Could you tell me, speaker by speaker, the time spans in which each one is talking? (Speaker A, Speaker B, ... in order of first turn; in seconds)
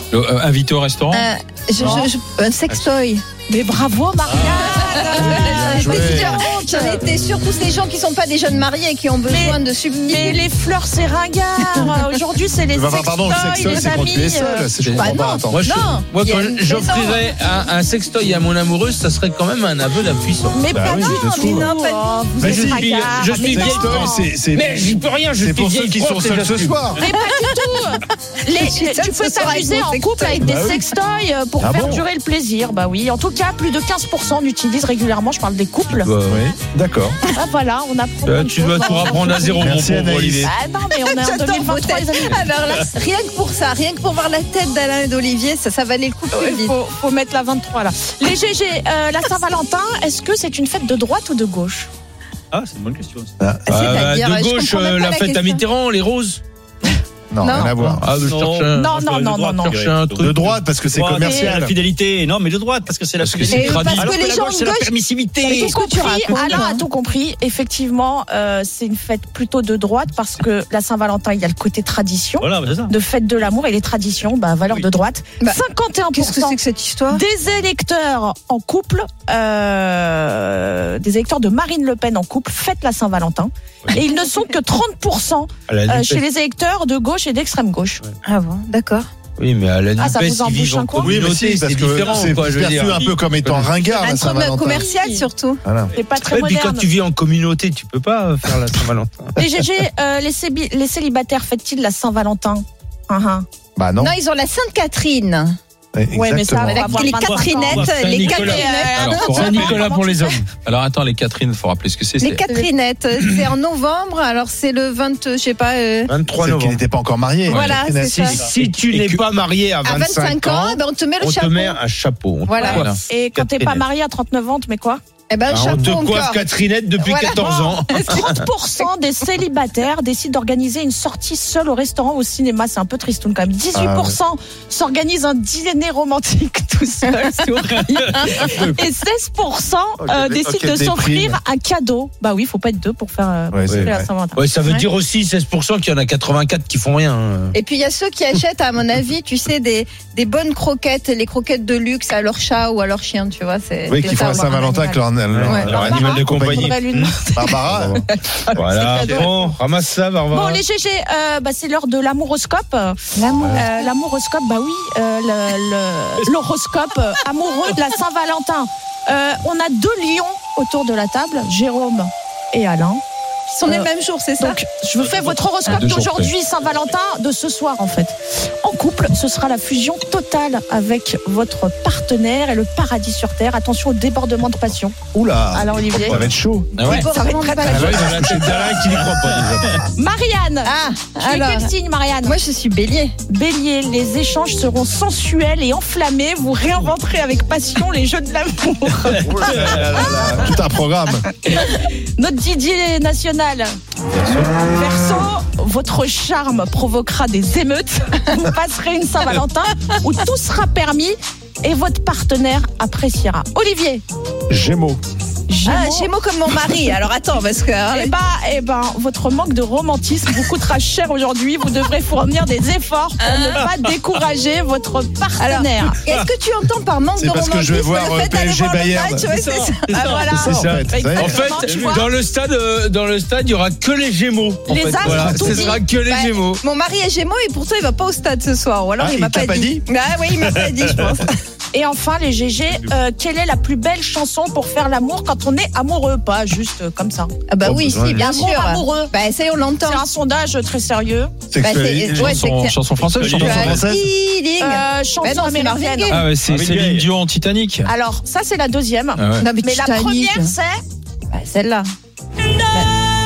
Speaker A: 0.1-1.3, 63.2-64.1, 108.9-109.9, 110.5-112.5, 118.6-119.2, 175.7-176.3, 252.0-253.9, 256.1-257.9, 259.2-259.5
Speaker B: 1.1-3.2, 4.7-10.5, 11.7-12.0, 14.9-17.2, 21.0-22.1, 27.0-30.5, 41.2-46.7, 53.6-55.6, 57.4-57.8, 63.5-66.8, 76.1-77.2, 88.2-89.1, 93.9-95.6, 104.0-105.6, 106.6-109.8, 112.2-116.1, 117.5-118.4, 119.8-121.8, 122.5-122.9, 125.3-126.4, 127.0-128.3, 147.5-156.1, 163.2-163.9, 173.5-174.6, 186.8-188.3, 190.6-191.7, 192.2-193.1, 215.6-218.1, 225.4-230.4, 236.1-241.3, 247.5-250.0, 251.6-252.8, 253.3-256.3, 259.4-260.5, 261.3-261.9
Speaker C: 1.8-2.1, 3.5-7.1, 9.3-14.7, 20.5-24.3, 27.0-36.1, 37.3-39.8, 40.4-42.5, 46.3-51.9, 57.5-58.0, 58.7-59.8, 61.2-61.5, 65.4-76.6, 77.1-88.0, 90.0-91.2, 94.6-95.2, 95.9-96.9, 99.4-103.4, 106.1-110.4, 122.5-125.0, 127.9-144.4, 155.6-157.6, 158.3-159.5, 160.3-173.0, 174.4-184.9, 185.5-186.2, 187.1-188.0, 189.9-192.3, 193.3-199.5, 201.4-203.7, 204.4-214.0, 215.5-216.1, 217.9-226.0, 229.9-232.1, 234.7-235.8, 241.7-247.3, 248.1-249.1, 249.8-251.3, 254.6-256.2, 257.8-260.8
Speaker D: 5.2-6.4, 12.7-15.7, 20.7-21.7, 22.4-27.0, 30.4-30.8, 31.6-32.0, 36.2-37.2, 39.6-40.5, 53.4-53.7, 57.3-58.0, 60.2-61.8, 90.9-94.9, 95.6-95.9, 103.8-104.1, 105.9-106.8, 116.4-118.4, 133.7-134.2, 140.0-141.4, 143.5-144.1, 153.9-158.0, 185.1-187.0, 187.6-188.8, 199.2-201.3, 214.5-215.0, 227.2-229.3, 230.2-231.4, 235.0-235.7, 239.0-239.8, 251.5-252.4, 253.4-254.0
Speaker E: 14.8-20.6, 22.4-27.0, 35.9-36.5, 38.2-40.5, 53.7-56.4, 57.9-58.9, 59.6-60.6, 85.7-86.2, 89.4-93.8, 96.2-99.3, 108.2-108.6, 109.3-110.4, 116.1-116.8, 118.3-123.8, 125.5-128.4, 138.1-138.6, 143.7-147.6, 155.3-157.1, 158.6-160.6, 185.9-187.1, 187.6-189.8, 204.1-204.4, 229.4-236.6, 247.6-248.3
Speaker F: 52.5-53.3, 58.2-66.6, 72.4-72.9, 106.8-108.7, 252.9-253.8, 256.4-257.1